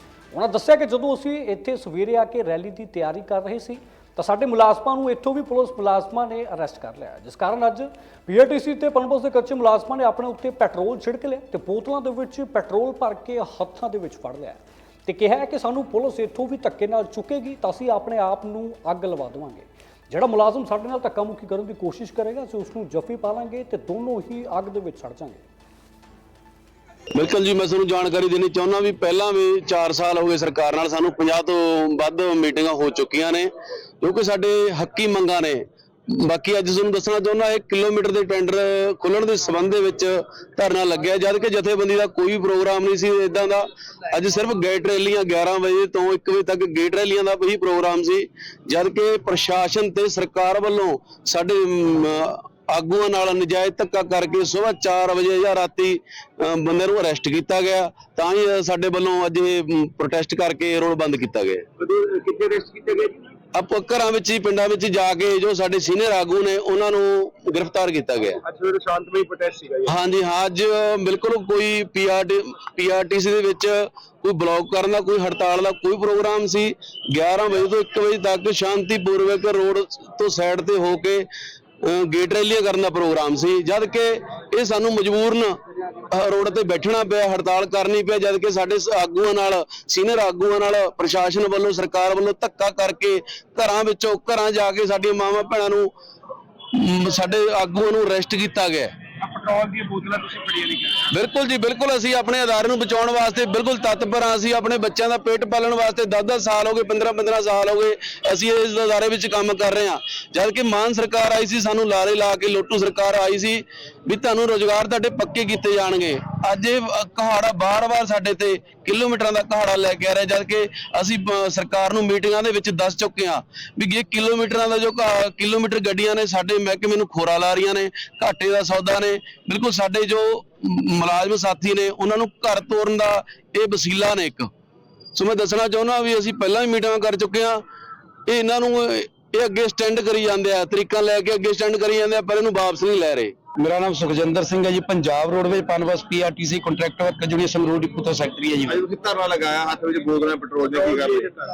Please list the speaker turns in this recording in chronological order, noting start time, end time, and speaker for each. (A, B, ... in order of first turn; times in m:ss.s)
0:00.3-0:25.4 A
0:27.1-1:01.6 B
1:01.8-1:03.2 C
1:03.5-1:08.4 B
1:08.4-1:10.0 C
1:09.8-1:21.3 B
1:21.8-1:25.6 B
1:26.1-1:35.9 B
1:36.7-1:38.9 B
1:39.2-1:41.1 C
1:41.1-2:14.5 B
2:15.1-2:17.6 B
2:18.3-2:23.3 B
2:23.6-2:28.8 D
2:28.7-2:31.4 C